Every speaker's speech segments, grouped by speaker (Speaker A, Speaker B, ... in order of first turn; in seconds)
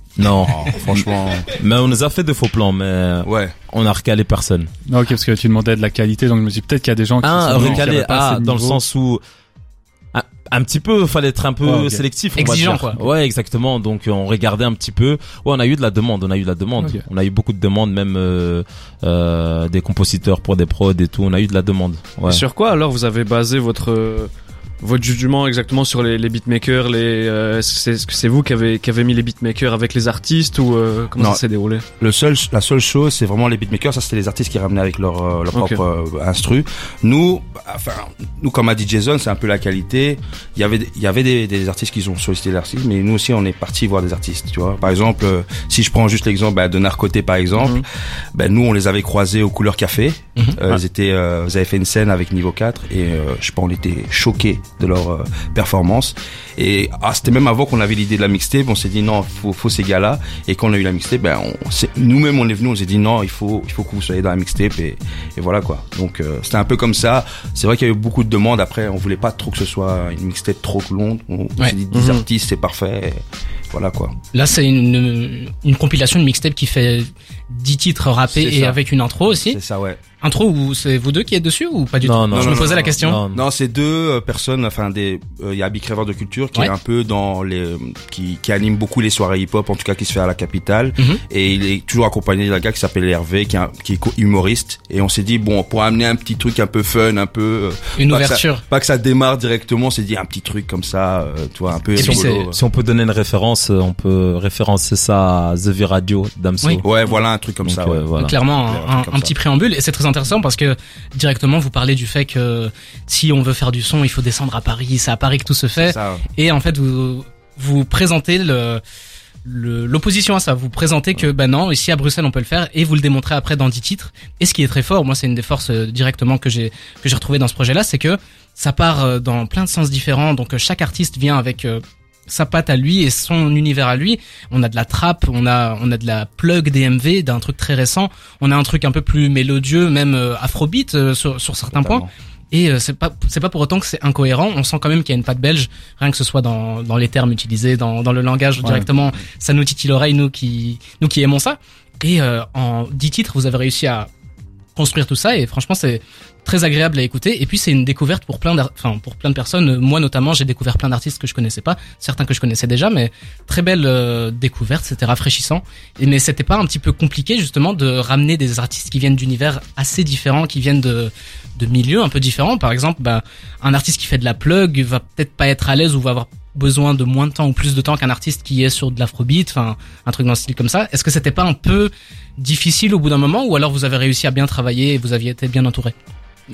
Speaker A: 0.2-4.7, 7.2-9.2, 10.1-22.4, 82.0-83.4, 101.9-106.8, 107.6-108.3
Speaker B: 0.4-1.5, 3.2-3.5, 7.5-7.8, 32.0-74.1, 78.3-80.0, 82.3-102.6, 106.8-109.3, 115.8-116.2, 141.7-142.1
Speaker C: 4.9-8.8, 11.6-12.0, 16.8-17.0
Speaker D: 12.3-13.0, 74.3-79.6, 80.2-83.2, 98.0-98.6, 102.0-102.4, 108.2-118.8, 119.4-154.1, 154.8-185.9
Speaker E: 22.2-31.8, 35.5-35.8, 71.9-72.2